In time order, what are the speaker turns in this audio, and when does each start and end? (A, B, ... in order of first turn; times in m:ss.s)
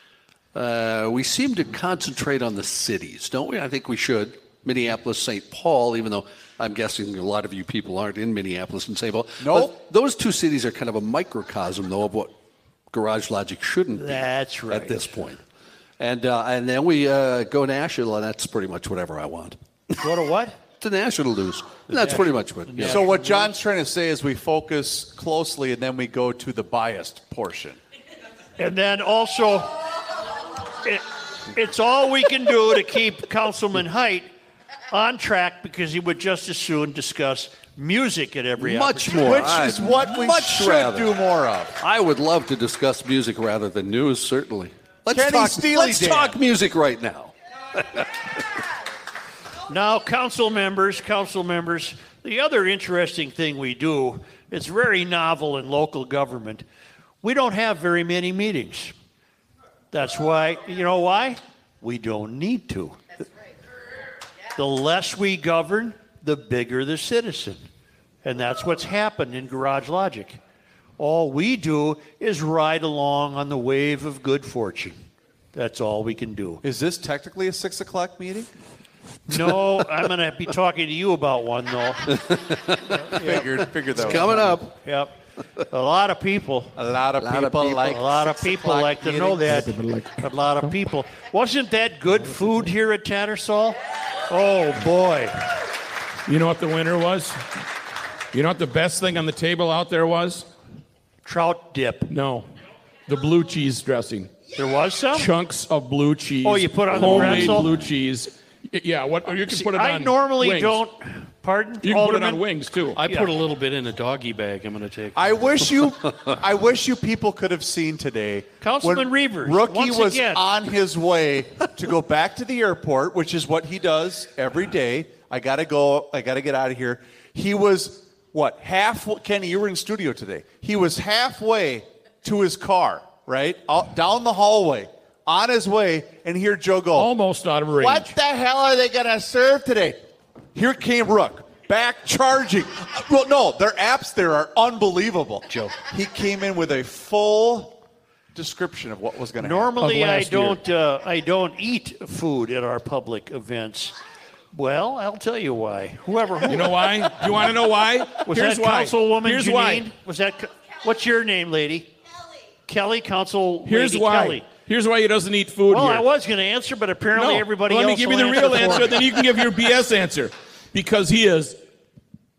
0:00.5-0:12.3 A
0:09.4-0:09.8 B
0:12.9-0:15.4 A
0:14.0-0:15.0 C
0:16.0-0:19.6 A
0:20.0-0:20.6 C
0:20.8-0:23.0 A
0:22.7-0:23.0 C
0:22.8-0:23.3 D
0:22.8-0:27.8 B
0:28.6-0:29.7 C
0:30.8-0:34.3 C
0:34.9-0:39.6 C
0:38.6-0:41.1 A
0:39.2-0:41.8 B
0:41.8-0:48.1 A
0:45.1-0:46.4 B
0:49.7-0:56.6 C
0:57.2-0:58.9 C
0:59.9-1:03.0 C
1:04.6-1:07.6 C
1:08.2-1:10.4 C
1:11.0-1:15.0 C
1:15.5-1:16.6 C
1:16.6-1:18.5 B
1:19.3-1:22.2 C
1:22.1-1:23.0 A
1:22.9-1:25.1 C
1:23.1-1:24.6 B
1:24.0-1:24.7 A
1:25.7-1:26.8 C
1:26.8-1:29.7 B
1:27.2-1:28.0 A
1:27.8-1:35.4 C
1:29.5-1:30.8 E
1:36.3-1:37.4 E
1:38.3-1:40.5 E
1:41.2-1:42.1 C
1:42.1-1:42.5 E
1:43.1-1:44.3 E
1:44.6-1:45.3 C
1:45.1-1:50.8 E
1:46.4-1:47.7 C
1:47.0-1:47.6 A
1:49.4-1:52.4 C
1:51.8-1:53.0 E
1:53.0-1:55.2 D
1:55.2-2:17.1 B
1:58.6-2:00.5 C
2:17.0-2:18.2 E
2:17.8-2:20.0 B
2:20.6-2:27.8 B
2:25.5-2:25.7 D
2:28.4-2:29.7 B
2:29.4-2:34.0 C
2:29.8-2:30.6 E
2:34.5-2:37.1 C
2:36.5-2:39.9 E
2:38.2-2:41.9 C
2:42.7-2:44.5 C
2:43.6-2:46.1 E
2:45.7-2:49.0 C
2:47.2-2:51.6 E